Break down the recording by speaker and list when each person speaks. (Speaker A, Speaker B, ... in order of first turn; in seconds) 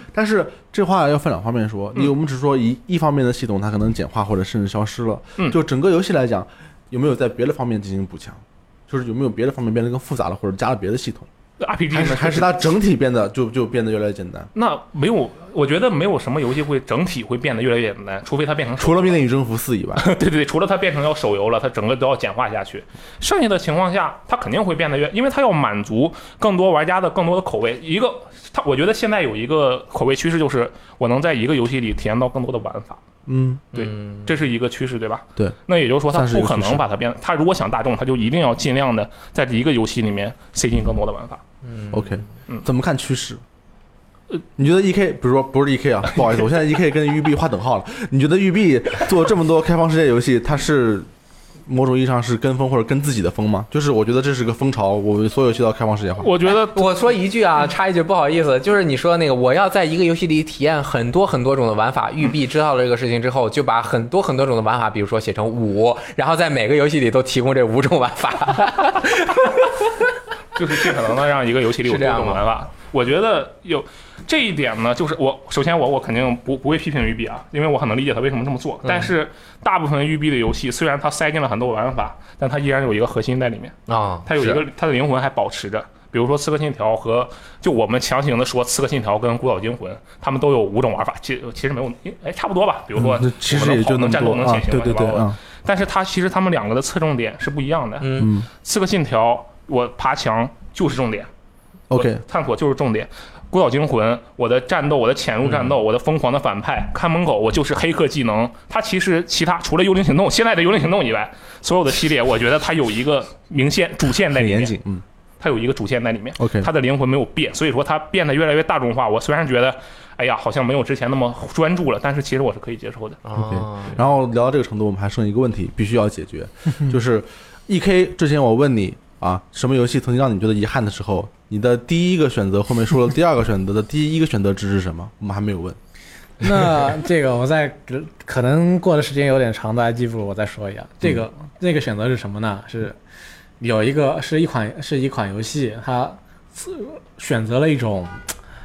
Speaker A: 0.1-11.3, 11.9-14.5, 18.8-20.1, 33.3-33.6, 36.1-36.8, 41.9-43.4, 44.6-51.1, 51.7-56.3, 93.0-95.4, 98.2-98.5, 101.9-102.2, 114.3-115.0, 116.4-116.7, 123.3-135.8
Speaker B: 11.6-12.7, 14.6-19.2, 20.0-33.0, 33.7-41.4, 56.2-56.9, 70.5-101.3, 101.9-114.7, 115.4-123.2
Speaker C: 33.8-34.4, 41.6-42.2, 56.7-70.0, 71.8-72.4, 78.8-79.1, 83.9-84.6, 98.0-98.3, 123.2-124.0
Speaker D: 136.4-143.0, 143.6-148.3